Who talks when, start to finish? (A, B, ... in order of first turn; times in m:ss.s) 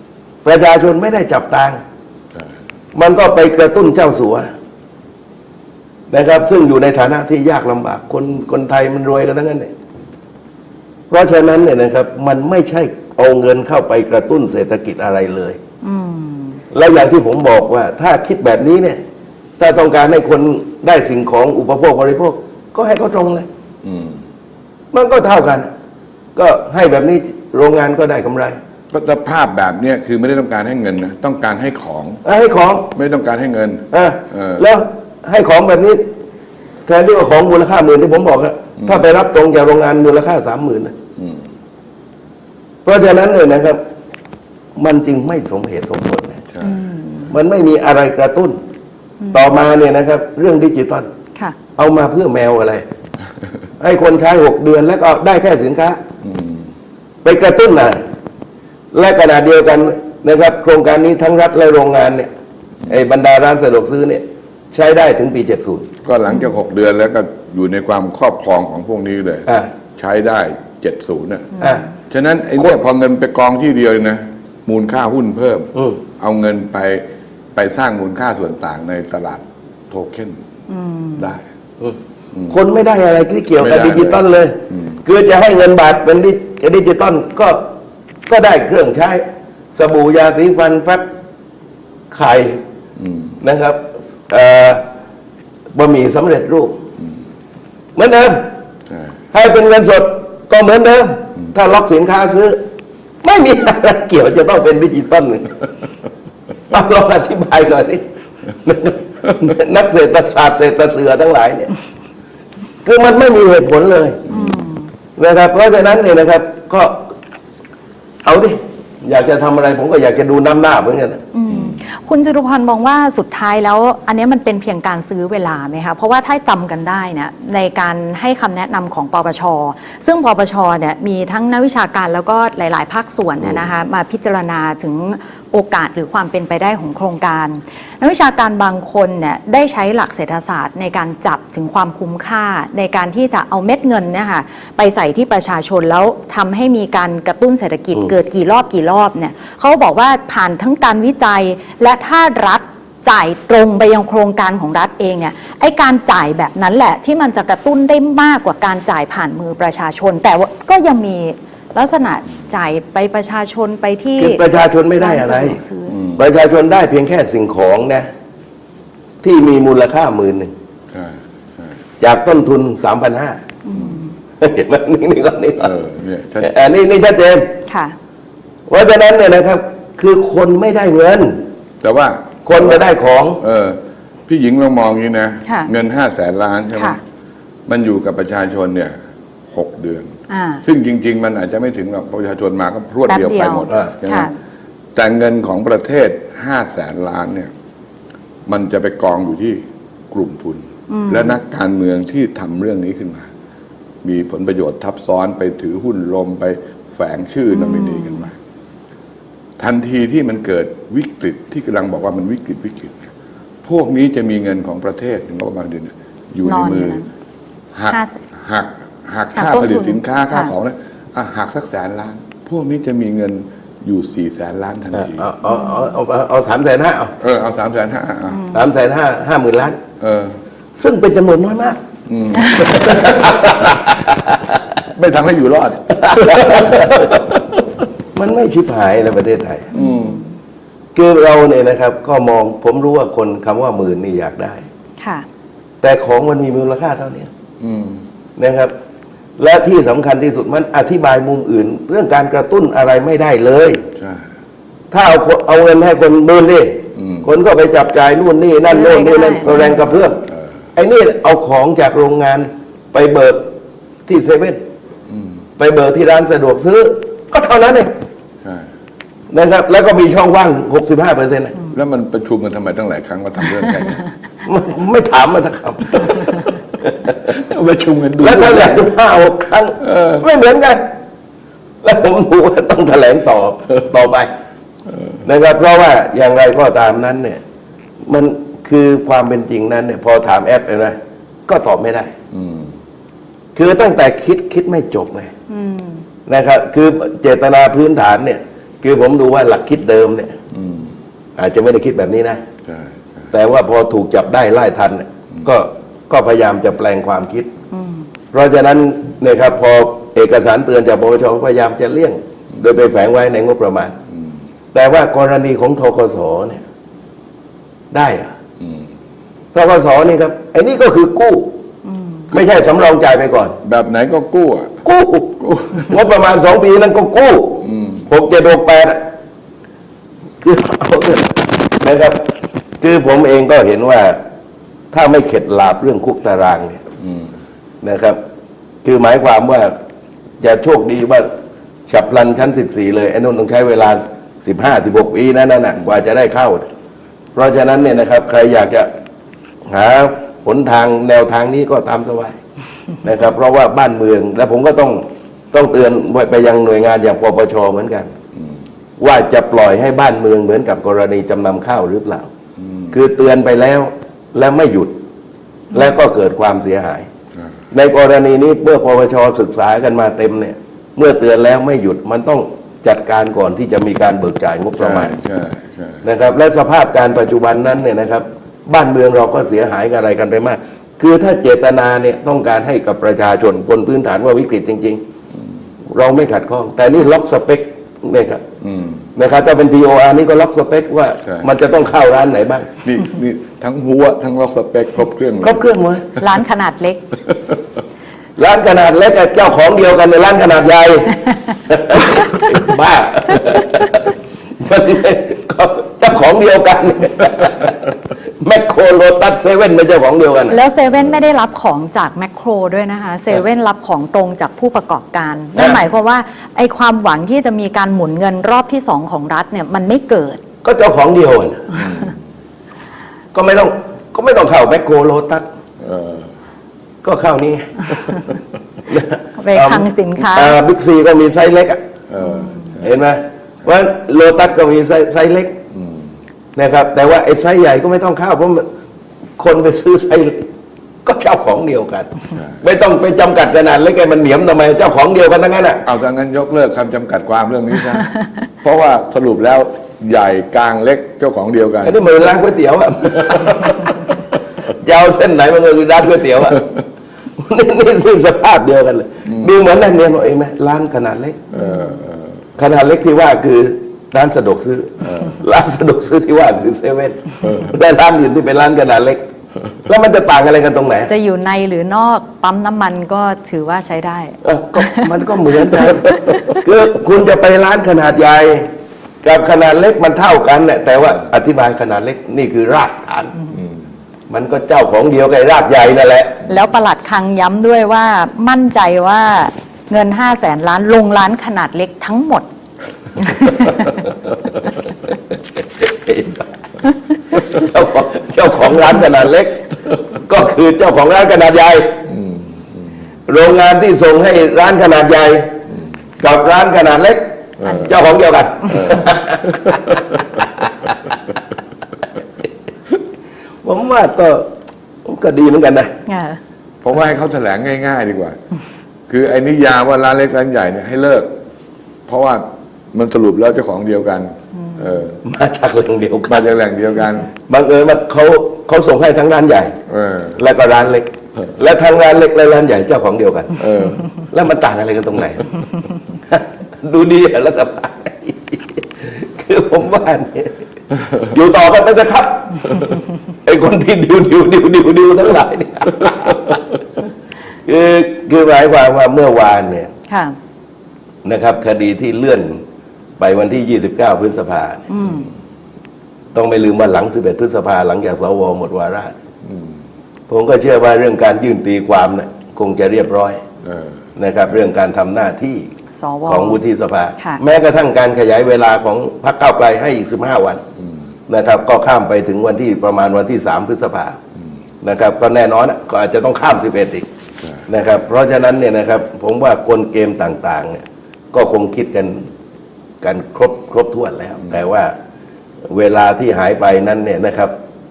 0:00.4-0:01.8 A
0:02.9-0:04.5 A
0:06.1-0:09.7 A
0:11.1-0:15.6 A
0:15.8-0:16.6 B
0:16.7-0:19.0 A
0:19.6-0:23.5 A
0:23.8-0:24.2 C
0:24.9-0:25.7 A
0:26.4-0:28.6 A
0:28.9-0:32.2 C
0:32.2-0:32.9 A
0:32.9-0:34.6 C
0:33.9-0:36.1 A
0:36.8-0:40.9 A
0:41.2-0:41.4 C
0:42.8-0:43.8 A
0:44.8-0:46.4 A
0:46.5-0:46.8 C
0:46.6-0:47.3 B
0:47.3-0:48.6 A
0:49.3-0:51.1 A
0:51.8-0:52.8 A
0:53.8-0:56.0 A
0:56.2-0:56.7 C
0:57.2-0:58.0 A
0:58.9-1:02.3 A
1:02.9-1:05.9 A
1:06.0-1:09.4 C
1:09.4-1:09.7 A
1:10.0-1:11.5 C
1:11.6-1:11.8 A
1:12.1-1:20.4 C
1:20.7-1:21.3 B
1:21.2-1:21.4 C
1:22.5-1:27.7 A
1:23.6-1:24.9 C
1:28.3-1:31.1 A
1:32.1-1:32.6 A
1:33.0-1:33.3 C
1:33.4-1:34.8 A
1:35.7-1:36.8 A
1:38.0-1:38.5 A
1:39.3-1:42.6 A
1:43.2-1:45.6 A
1:46.7-1:51.7 A
1:52.8-1:54.3 A
1:54.3-1:54.8 B
1:55.2-1:57.1 A
1:58.2-2:01.2 A
2:01.3-2:46.0 B
2:44.2-2:45.6 A
2:45.9-2:46.2 C
2:46.2-2:48.1 A
2:49.2-2:50.5 A
2:50.9-2:51.8 C
2:52.0-2:53.4 A
2:53.6-2:54.1 B
2:54.4-2:55.7 A
2:55.6-2:56.5 C
2:56.4-2:57.5 A
2:57.7-2:58.0 B
2:58.7-3:01.5 A
3:01.8-3:02.9 C
3:02.4-3:03.4 A
3:03.4-3:07.0 C
3:05.4-3:05.7 B
3:07.7-3:08.9 C
3:09.5-3:14.3 C
3:10.3-3:10.6 B
3:13.1-3:14.3 B
3:14.9-3:17.5 C
3:18.5-3:23.3 C
3:20.9-3:21.3 B
3:24.0-3:28.3 C
3:27.5-3:28.2 B
3:29.6-3:33.1 C
3:33.6-3:37.0 C
3:36.4-3:37.1 B
3:37.7-3:45.3 C
3:37.9-3:38.2 B
3:39.3-3:40.5 B
3:44.9-3:47.1 A
3:47.2-3:48.5 C
3:48.5-3:49.8 A
3:50.0-3:50.4 C
3:50.8-3:51.8 A
3:52.1-3:53.8 C
3:52.5-3:54.5 A
3:54.9-3:57.2 C
3:55.9-3:57.4 A
3:58.1-3:59.7 A
3:59.7-4:00.2 C
3:59.7-4:00.2 B
4:00.9-4:04.6 A
4:05.0-4:05.2 B
4:05.8-4:07.3 A
4:07.6-4:08.0 C
4:08.4-4:08.7 A
4:09.4-4:13.8 A
4:14.0-4:14.3 C
4:14.9-4:20.2 A
4:17.0-4:17.3 C
4:18.7-4:19.4 B
4:20.8-4:23.6 A
4:24.1-4:24.6 A
4:25.6-4:27.9 A
4:28.4-4:28.7 C
4:29.3-4:31.6 A
4:31.7-4:34.0 C
4:34.4-4:37.2 A
4:37.2-4:38.9 C
4:38.2-4:40.9 A
4:39.8-4:40.2 C
4:41.8-4:44.3 A
4:45.2-4:47.4 A
4:48.0-4:52.1 A
4:52.3-4:52.7 C
4:53.6-4:55.3 A
4:55.5-4:56.0 B
4:56.3-5:00.4 A
5:00.5-5:00.9 C
5:01.4-5:02.4 A
5:02.6-5:03.3 C
5:03.3-5:07.5 A
5:07.7-5:08.0 B
5:08.3-5:13.9 A
5:14.7-5:16.6 A
5:17.9-5:18.3 A
5:19.5-5:21.6 A
5:22.3-5:23.6 A
5:23.6-5:24.8 C
5:24.8-5:29.0 A
5:25.4-5:25.9 C
5:27.6-5:28.0 C
5:30.4-5:34.2 A
5:34.9-5:36.8 A
5:37.0-5:37.3 C
5:37.8-5:38.2 A
5:38.8-5:39.8 A
5:40.4-5:41.3 A
5:41.9-5:46.7 A
5:47.3-5:48.9 A
5:49.7-5:52.4 A
5:53.0-5:58.1 A
5:59.0-6:02.3 A
6:02.6-6:02.9 C
6:02.9-6:05.0 A
6:05.7-6:07.1 A
6:07.7-6:15.1 A
6:14.8-6:16.0 C
6:16.0-6:25.0 A
6:25.9-6:28.4 A
6:28.6-6:29.0 C
6:29.2-6:32.7 A
6:32.8-6:35.6 C
6:35.4-6:36.2 A
6:36.2-6:37.1 B
6:38.4-6:44.1 A
6:44.6-6:47.9 A
6:48.4-6:50.6 A
6:50.5-7:00.4 B
6:55.6-6:55.8 A
7:00.6-7:01.8 A
7:01.7-7:02.2 C
7:03.3-7:05.4 A
7:05.8-7:06.3 C
7:07.0-7:08.0 A
7:08.9-7:11.8 A
7:09.4-7:10.6 B
7:12.1-7:12.9 C
7:12.8-7:15.6 A
7:15.7-7:16.1 C
7:16.6-7:18.7 A
7:19.4-7:20.4 A
7:21.0-7:25.8 A
7:25.8-7:28.1 C
7:28.6-7:32.0 C
7:31.8-7:33.9 A
7:34.7-7:36.7 A
7:37.4-7:41.4 A
7:41.5-7:42.3 C
7:41.5-7:41.9 B
7:42.6-7:49.2 A
7:45.0-7:45.4 C
7:49.8-7:51.1 A
7:51.1-7:55.1 B
7:54.4-7:58.7 A
7:59.2-8:03.4 A
8:04.3-8:06.4 A
8:06.5-8:12.4 B
8:13.2-8:13.9 B
8:15.8-8:16.4 A
8:17.3-8:22.0 A
8:22.1-8:22.6 C
8:23.3-8:25.5 A
8:26.2-8:30.7 A
8:27.6-8:27.9 C
8:33.6-8:34.5 A
8:35.0-8:36.0 A
8:36.1-8:36.4 B
8:36.8-8:38.4 C
8:39.1-8:41.3 C
8:42.1-8:45.2 C
8:45.2-8:46.5 A
8:46.3-8:47.3 C
8:47.5-8:49.8 A
8:49.9-8:50.4 C
8:50.3-8:55.5 A
8:53.6-8:54.0 C
8:56.3-9:00.6 A
9:01.2-9:02.9 A
9:03.4-9:06.6 A
9:07.6-9:09.9 A
9:10.1-9:10.4 B
9:11.2-9:12.6 A
9:13.2-9:14.9 A
9:14.9-9:15.3 B
9:16.3-9:19.2 A
9:19.4-9:19.8 C
9:20.3-9:23.4 A
9:23.6-9:24.0 C
9:24.2-9:25.7 A
9:26.0-9:26.6 B
9:26.2-9:30.6 A
9:31.3-9:34.2 A
9:34.8-9:37.0 A
9:37.7-9:42.3 A
9:43.0-9:45.0 A
9:45.7-9:47.6 A